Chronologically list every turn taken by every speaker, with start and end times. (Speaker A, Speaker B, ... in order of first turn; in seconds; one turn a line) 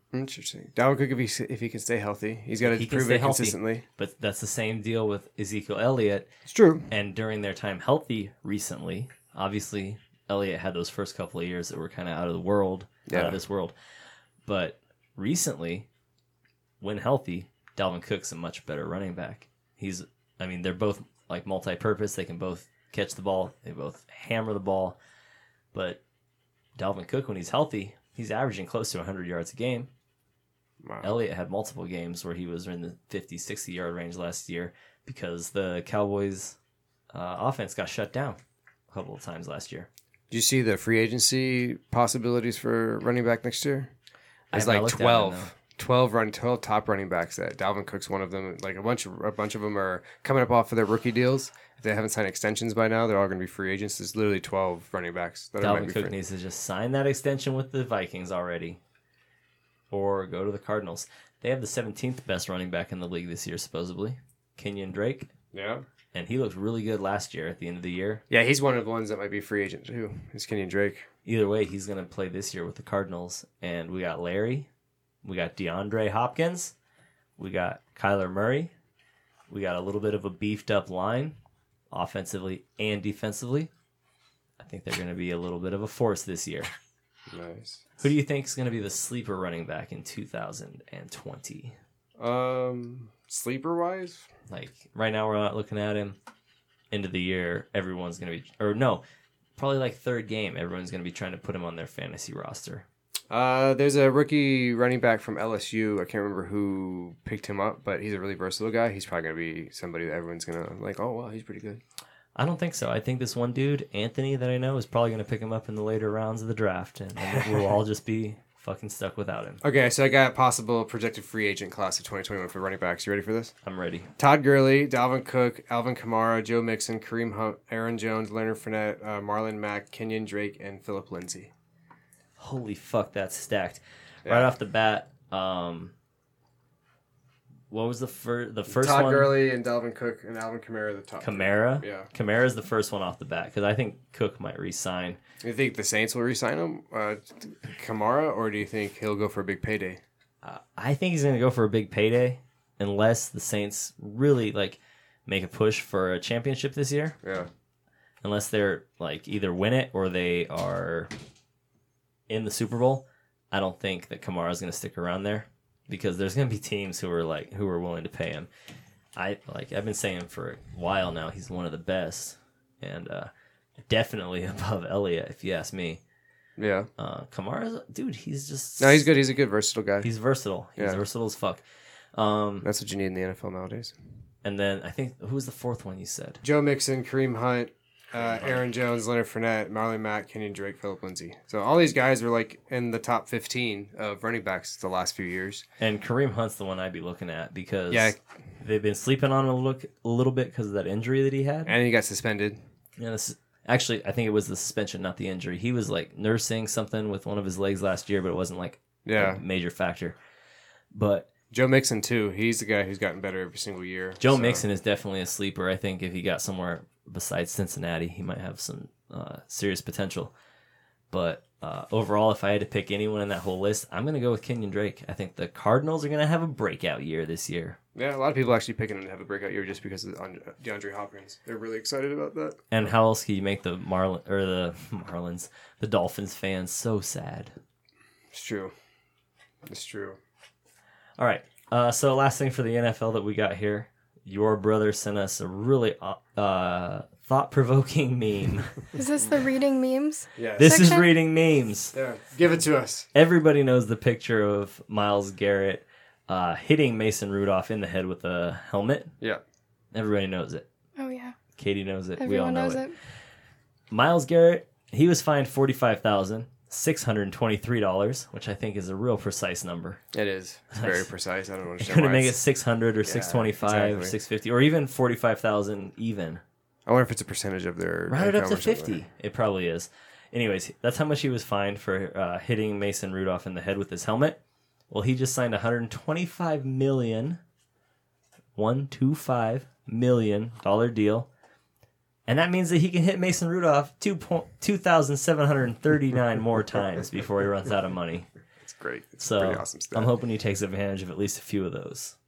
Speaker A: 0.1-3.8
Speaker B: 2.6-6.3
Speaker A: 6.5-6.9
Speaker B: 6.9-13.7
Speaker A: 13.1-13.4
Speaker B: 14.4-15.9
Speaker B: 16.8-25.0
Speaker B: 25.7-26.0
Speaker B: 26.8-29.9
Speaker A: 30.8-31.1
Speaker B: 31.0-36.5
Speaker B: 37.1-38.4
Speaker B: 38.9-39.9
Speaker A: 40.3-43.9
Speaker B: 44.5-45.5
Speaker A: 44.5-56.1
Speaker B: 55.6-58.8
Speaker B: 59.9-65.3
Speaker A: 65.5-65.8
Speaker B: 66.1-68.2
Speaker A: 68.3-71.0
Speaker B: 71.2-74.7
Speaker B: 75.2-76.7
Speaker B: 77.4-78.7
Speaker B: 79.5-81.3
Speaker B: 81.9-83.7
Speaker B: 84.6-86.7
Speaker A: 87.3-87.8
Speaker B: 88.0-91.8
Speaker A: 92.2-94.3
Speaker B: 94.5-96.2
Speaker B: 96.9-99.0
Speaker B: 99.6-102.8
Speaker A: 103.3-111.8
Speaker B: 112.3-119.6
Speaker A: 117.2-117.5
Speaker A: 119.6-123.5
Speaker B: 123.6-124.1
Speaker A: 124.2-131.5
Speaker B: 132.4-135.9
Speaker A: 134.2-134.5
Speaker B: 137.7-139.3
Speaker A: 138.7-142.1
Speaker B: 141.2-145.2
Speaker A: 145.4-150.0
Speaker B: 150.4-157.2
Speaker A: 157.2-157.5
Speaker B: 158.2-161.1
Speaker B: 162.3-168.5
Speaker B: 169.2-173.3
Speaker B: 173.8-176.0
Speaker A: 176.6-176.9
Speaker B: 177.0-179.1
Speaker A: 178.8-180.1
Speaker B: 180.0-181.6
Speaker A: 180.8-181.0
Speaker B: 182.1-182.7
Speaker A: 182.6-183.9
Speaker B: 184.4-186.4
Speaker A: 186.4-195.6
Speaker B: 188.1-188.6
Speaker B: 195.8-201.7
Speaker A: 197.9-198.2
Speaker A: 201.7-202.6
Speaker B: 203.0-210.2
Speaker A: 209.0-209.4
Speaker B: 210.9-211.3
Speaker A: 211.5-214.7
Speaker B: 214.2-220.3
Speaker B: 221.1-227.8
Speaker A: 227.9-232.6
Speaker B: 232.7-237.5
Speaker A: 238.3-238.7
Speaker A: 239.7-240.2
Speaker B: 241.2-248.8
Speaker C: 248.9-251.1
Speaker A: 250.4-250.9
Speaker B: 250.6-251.9
Speaker A: 251.9-253.1
Speaker B: 253.1-259.1
Speaker B: 259.9-260.6
Speaker C: 261.0-261.4
Speaker B: 261.6-262.8
Speaker C: 262.2-262.9
Speaker B: 263.9-270.0
Speaker A: 270.1-272.4
Speaker B: 270.7-271.1
Speaker B: 271.8-276.4
Speaker A: 273.0-274.1
Speaker A: 276.9-279.0
Speaker B: 278.1-284.4
Speaker B: 284.9-287.4
Speaker B: 288.6-291.3
Speaker B: 292.3-298.3
Speaker A: 298.7-300.1
Speaker B: 299.2-302.1